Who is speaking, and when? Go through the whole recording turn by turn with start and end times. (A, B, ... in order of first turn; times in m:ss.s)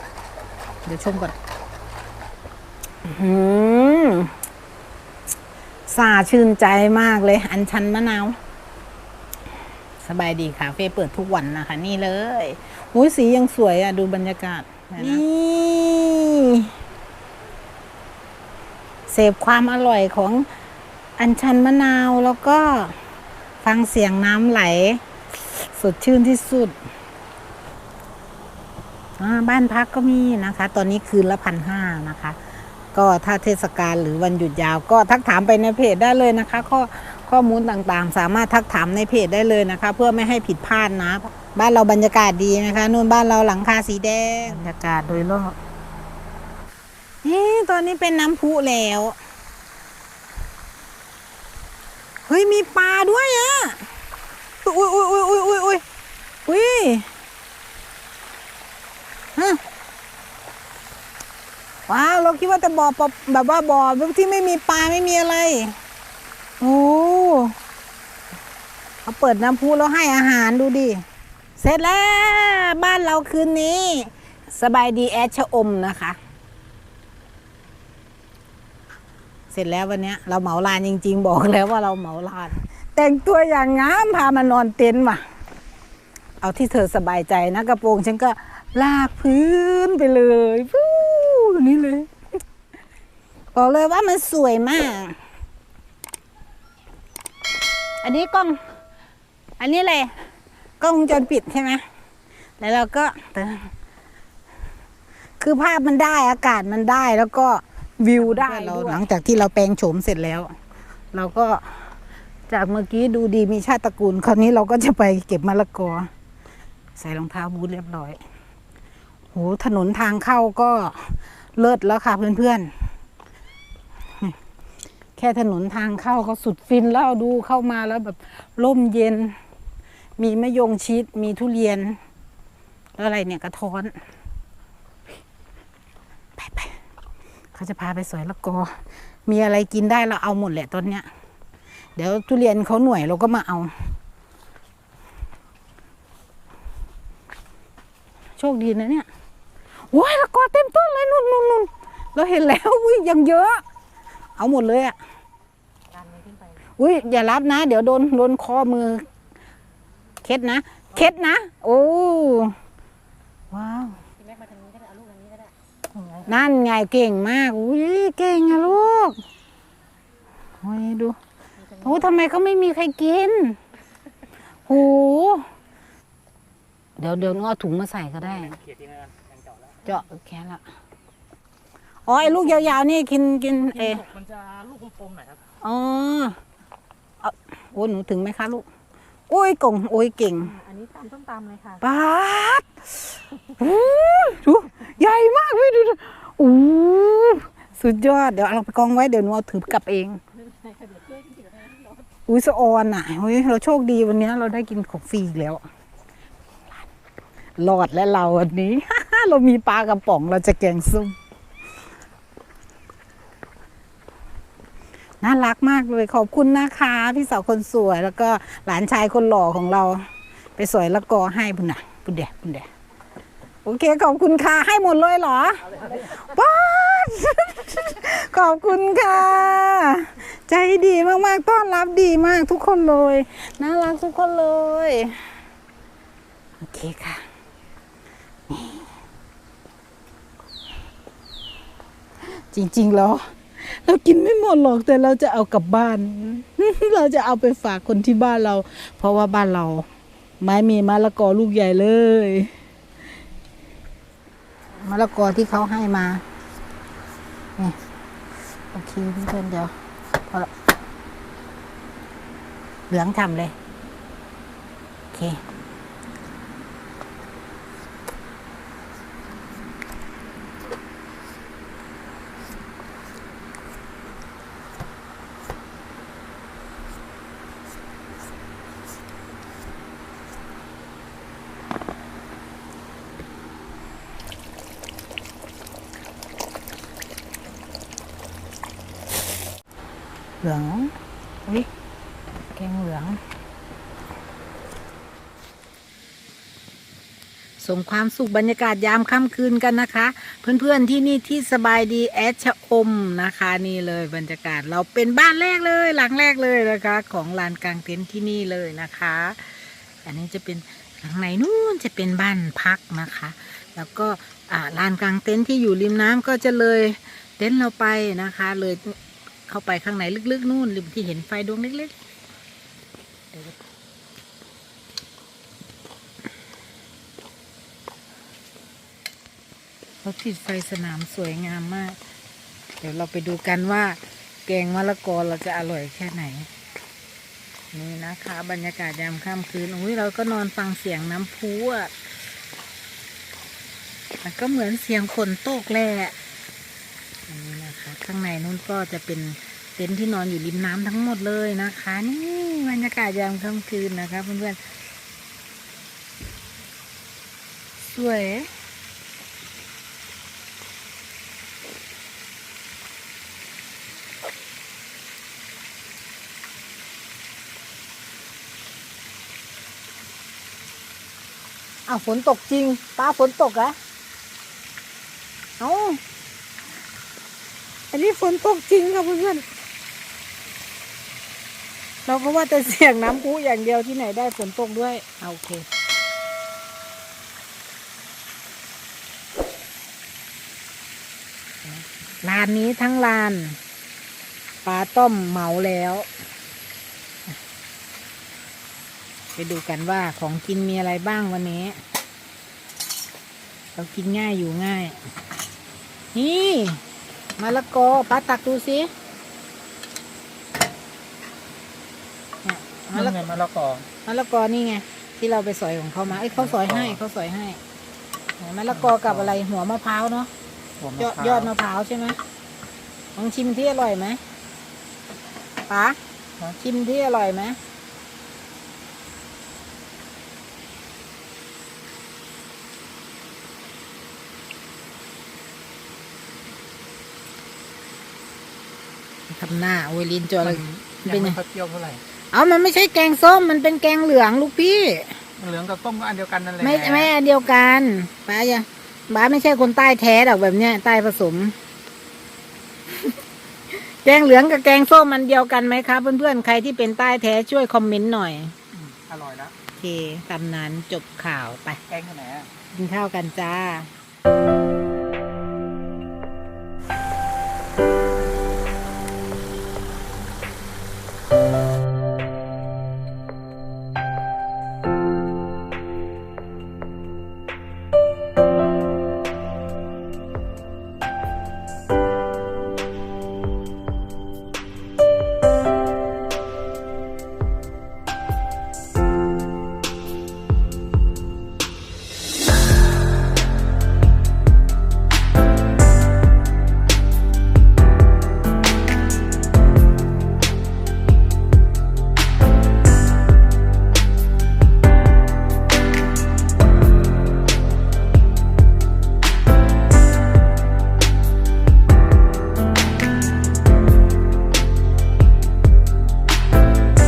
0:00.8-0:01.4 A
0:03.0-0:04.3 A
0:05.9-0:08.4 A
0:10.0-0:16.7 A
0:19.1-0:20.5 A
0:21.2-0:23.0 A
0:23.6-0:26.7 A
0:29.2-0:32.4 A
0:32.9-0:45.6 A
0:47.2-0:49.2 A
0:52.2-0:53.8 A
0:54.6-0:55.8 A
0:56.4-0:57.1 A
0:59.4-0:59.6 A
1:01.9-1:05.8 A
1:06.6-1:07.6 A
1:09.0-1:11.0 A
1:11.6-1:16.2 A
1:19.5-1:25.2 A
1:26.4-1:32.1 A
1:33.5-1:35.2 A
1:38.0-1:38.6 A
1:39.6-1:40.3 A
1:40.8-1:41.8 A
1:42.6-1:43.7 A
1:45.4-1:50.5 A
1:51.1-1:51.9 A
1:52.5-1:56.1 A
1:57.0-1:58.2 A
1:59.3-2:02.7 A
2:05.2-2:09.4 A
2:10.2-2:12.0 A
2:13.0-2:14.0 A
2:16.4-2:16.8 A
2:17.5-2:21.1 A
2:22.0-2:23.9 A
2:28.4-2:29.1 A
2:29.9-2:33.6 A
2:34.4-2:35.0 A
2:36.0-2:36.3 B
2:36.8-2:39.1 A
2:40.2-2:42.6 A
2:43.5-2:44.0 A
2:44.2-2:45.5 B
2:46.2-2:49.2 A
2:50.6-2:51.2 A
2:51.8-2:53.6 A
2:54.6-2:55.5 A
2:57.0-2:58.6 A
2:59.8-3:00.6 A
3:02.0-3:04.1 A
3:04.1-3:05.4 C
3:05.6-3:06.4 A
3:07.2-3:08.6 A
3:09.3-3:10.6 A
3:10.6-3:11.8 B
3:11.8-3:20.2 A
3:20.6-3:21.8 B
3:22.3-3:25.6 A
3:27.6-3:31.2 A
3:35.2-3:40.0 A
3:40.6-3:42.7 A
3:43.6-3:55.2 A
3:56.6-3:57.2 A
3:58.5-3:58.8 A
4:02.3-4:09.9 A
4:10.4-4:12.5 A
4:14.8-4:16.2 A
4:18.7-4:19.7 A
4:22.9-4:23.5 A
4:25.1-4:25.4 A
4:50.4-4:50.9 A
4:52.5-4:53.2 A
4:57.6-5:21.9 A
5:30.0-5:32.0 A
5:32.8-5:36.5 A
5:37.7-5:41.9 A
5:44.2-5:46.1 A
5:47.3-5:54.6 A
5:57.8-5:58.5 A
6:11.9-6:13.8 A
6:15.6-6:16.0 A
6:17.9-6:19.4 A
6:22.0-6:25.6 A
6:31.8-6:33.6 A
6:34.6-6:36.1 A
6:39.4-6:41.8 A
6:43.7-6:45.0 A
6:46.1-6:46.8 A
6:47.4-6:48.9 A
6:52.4-6:53.4 A
6:53.1-6:53.9 C
6:53.9-6:57.6 A
6:58.4-7:00.3 A
7:00.9-7:02.2 A
7:03.1-7:04.2 A
7:05.7-7:07.6 A
7:19.3-7:21.4 A
7:20.9-7:22.0 C
7:22.3-7:25.2 A
7:25.4-7:27.1 C
7:26.6-7:31.5 A
7:33.7-7:38.6 A
7:39.0-7:39.5 C
7:39.6-7:41.8 A
7:41.9-7:42.5 C
7:42.7-7:43.9 A